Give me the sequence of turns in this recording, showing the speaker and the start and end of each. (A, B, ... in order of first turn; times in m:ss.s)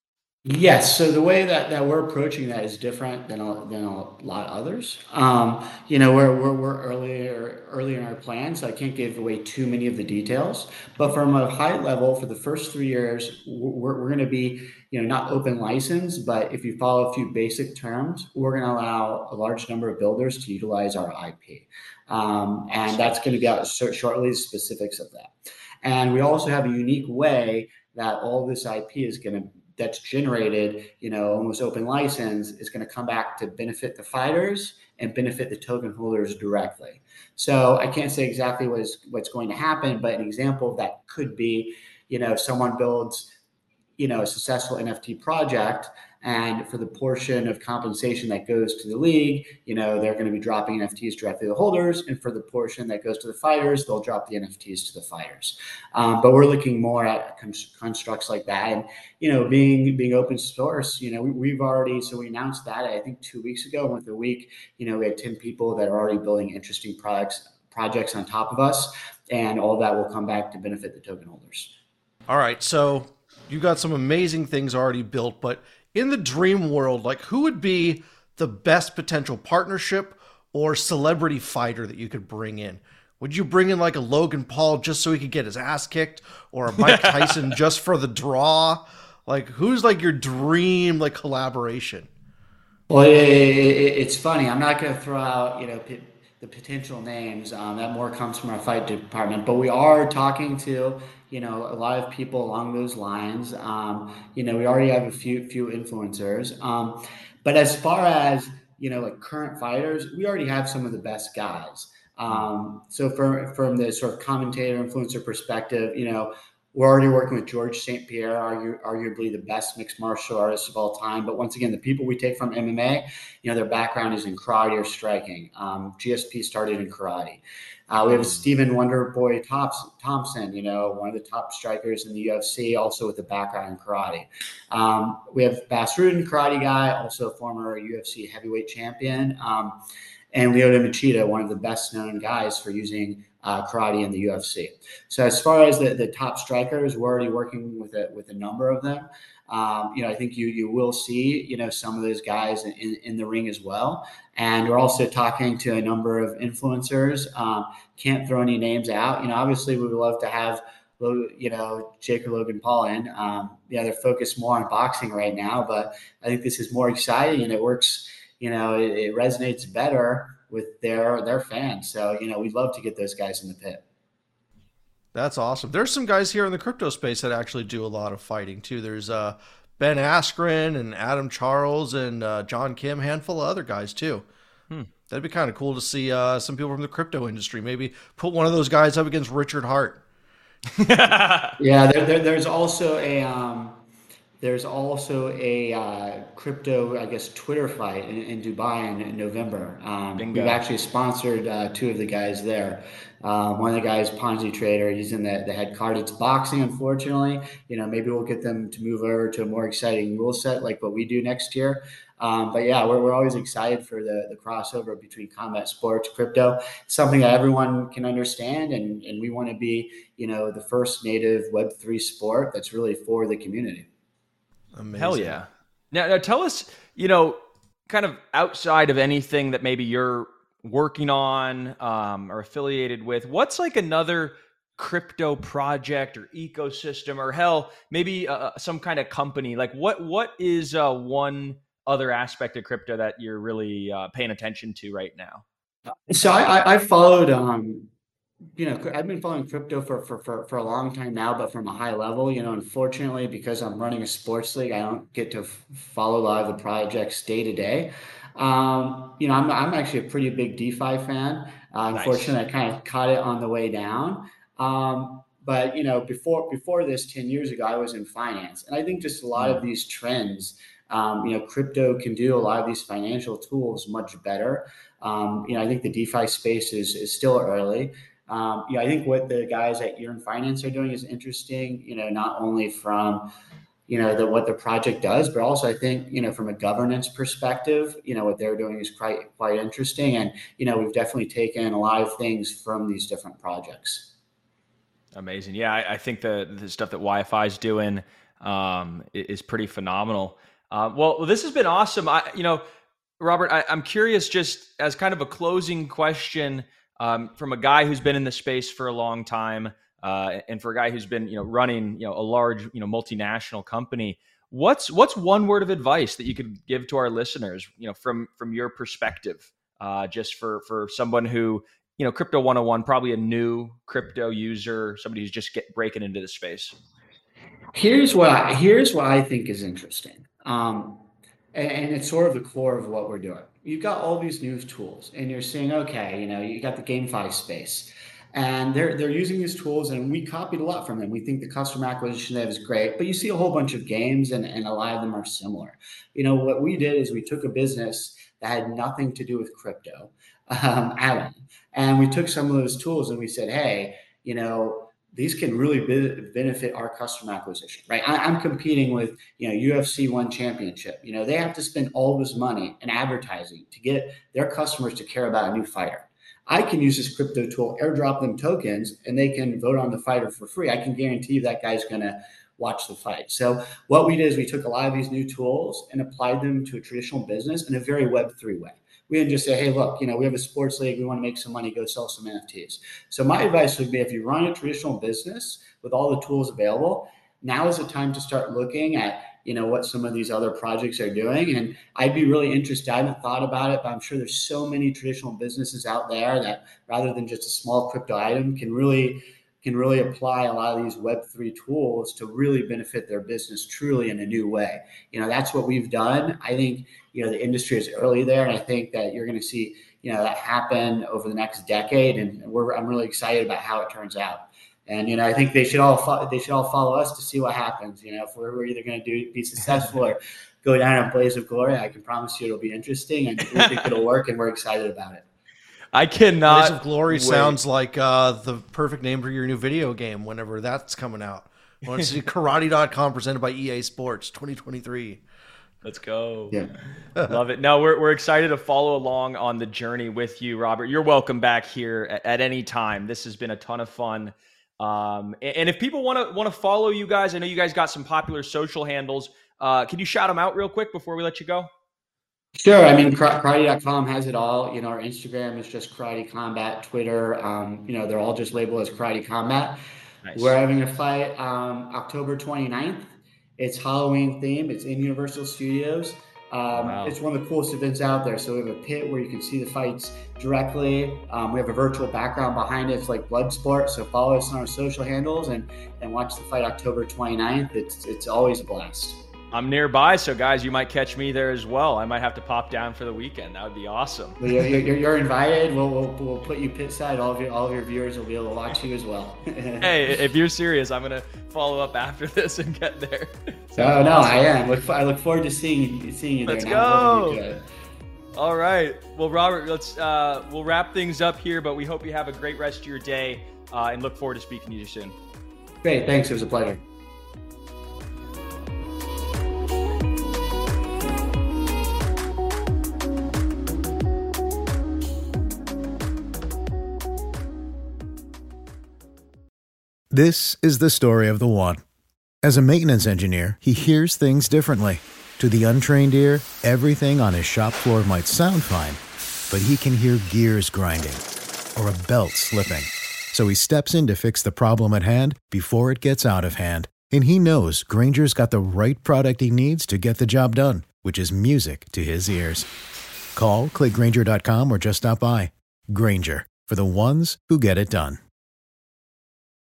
0:00.4-0:25.3 A
0:22.9-0:23.4 B
0:25.8-0:43.3 A
0:44.0-1:11.8 A
1:12.3-1:32.1 C
1:26.8-1:27.4 B
1:32.9-2:19.8 A
2:20.3-2:53.8 A
2:55.1-3:04.3 C
3:05.1-3:10.0 C
3:10.8-3:11.6 B
3:11.6-3:13.8 A
3:14.4-3:43.9 A
3:20.2-3:20.6 B
3:44.7-3:45.4 C
3:45.0-4:05.4 B
4:06.1-4:07.9 A
4:08.6-4:43.3 A
4:21.9-4:22.4 B
4:29.4-4:29.6 B
4:43.9-4:54.1 A
4:55.1-5:02.6 B
5:03.2-5:26.7 B
5:27.7-7:05.2 A
7:03.5-7:03.8 B
7:05.9-7:07.6 B
7:06.5-7:15.2 C
7:15.8-7:16.6 B
7:17.3-7:31.7 B
7:32.6-7:39.8 A
7:40.2-7:40.6 B
7:40.4-7:59.2 A
7:46.8-7:47.2 B
7:59.5-8:04.8 B
8:04.4-8:09.9 A
8:09.8-8:14.4 B
8:13.8-8:17.6 A
8:16.5-8:17.4 B
8:18.4-8:25.2 B
8:25.8-8:26.8 A
8:40.1-8:41.8 D
8:42.4-8:51.2 D
8:51.8-9:02.7 D
9:03.4-9:08.2 D